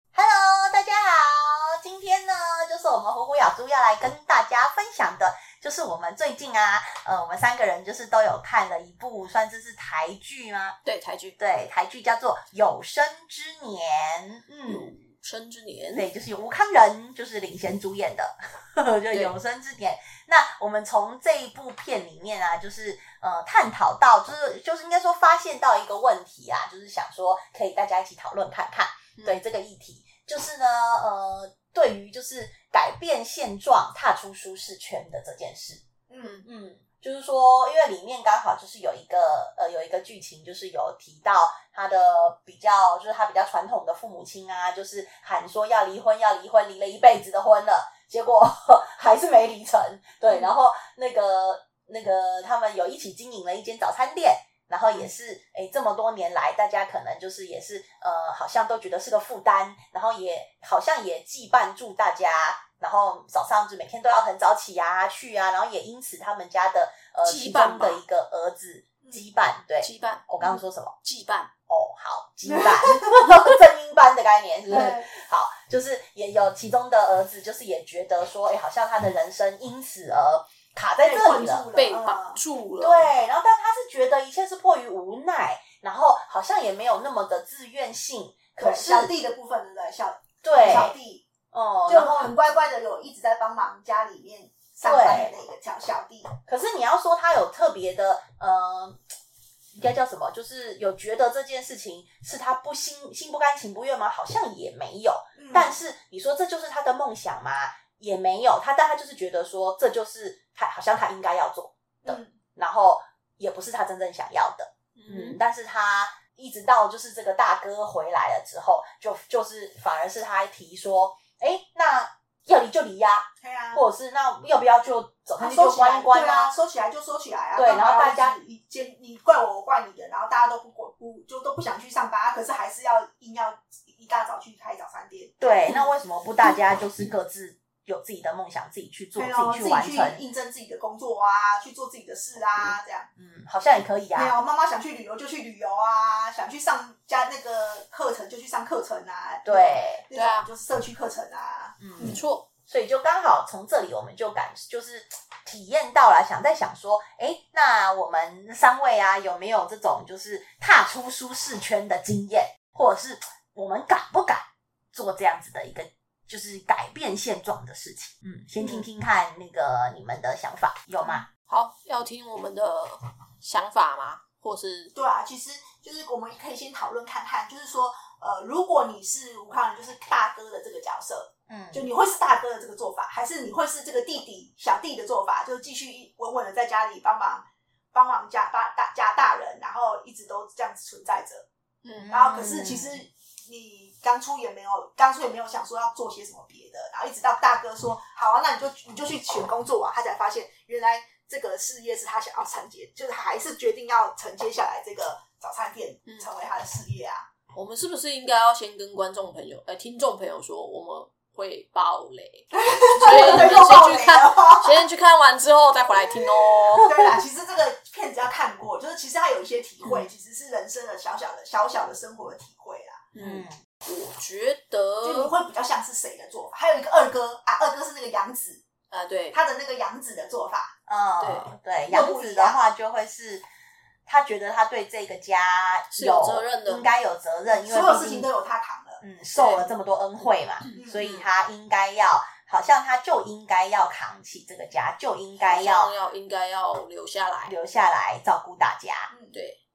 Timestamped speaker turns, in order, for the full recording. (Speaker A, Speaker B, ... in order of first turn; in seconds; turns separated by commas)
Speaker A: 0.1-10.8, Speaker B: 10.8-11.4, Speaker A: 11.4-14.9, Speaker B: 14.7-16.1, Speaker A: 15.9-35.8, Speaker C: 36.1-36.4, Speaker A: 36.4-70.9, Speaker B: 67.2-68.0, Speaker B: 69.8-70.2, Speaker B: 71.0-71.5, Speaker A: 71.7-81.7, Speaker C: 72.5-73.1, Speaker C: 74.7-75.1, Speaker C: 81.0-82.4, Speaker B: 81.7-83.1, Speaker A: 82.8-89.1, Speaker C: 88.6-91.2, Speaker A: 90.4-90.9, Speaker A: 91.5-92.3, Speaker C: 91.9-96.3, Speaker A: 94.8-95.3, Speaker A: 96.5-99.0, Speaker A: 99.7-126.5, Speaker C: 105.3-105.8, Speaker C: 112.0-112.3, Speaker B: 115.0-115.4, Speaker C: 123.4-123.8, Speaker C: 125.4-136.6, Speaker A: 127.5-128.4, Speaker A: 135.4-140.2, Speaker C: 139.2-143.1, Speaker A: 142.6-144.3, Speaker C: 144.1-152.2, Speaker A: 149.4-150.0, Speaker B: 150.1-150.5, Speaker A: 151.8-171.2, Speaker B: 152.0-152.4, Speaker B: 171.5-174.9, Speaker C: 174.9-191.4, Speaker A: 181.5-181.8, Speaker B: 191.8-192.1, Speaker A: 192.0-193.0, Speaker C: 192.1-207.2, Speaker B: 207.5-216.9, Speaker C: 212.5-214.8, Speaker C: 216.8-223.1, Speaker B: 223.1-225.3, Speaker A: 223.2-223.5, Speaker C: 225.0-228.6, Speaker B: 228.9-229.4, Speaker C: 229.3-230.7, Speaker A: 230.9-233.4, Speaker B: 231.2-231.5, Speaker C: 231.9-232.6, Speaker A: 234.1-238.3, Speaker B: 235.9-236.9, Speaker C: 237.5-239.0, Speaker A: 239.0-245.9, Speaker B: 239.3-239.7, Speaker B: 240.6-241.2, Speaker C: 240.7-241.0, Speaker B: 245.4-247.5, Speaker A: 247.4-249.1, Speaker C: 249.1-249.4, Speaker B: 249.3-249.6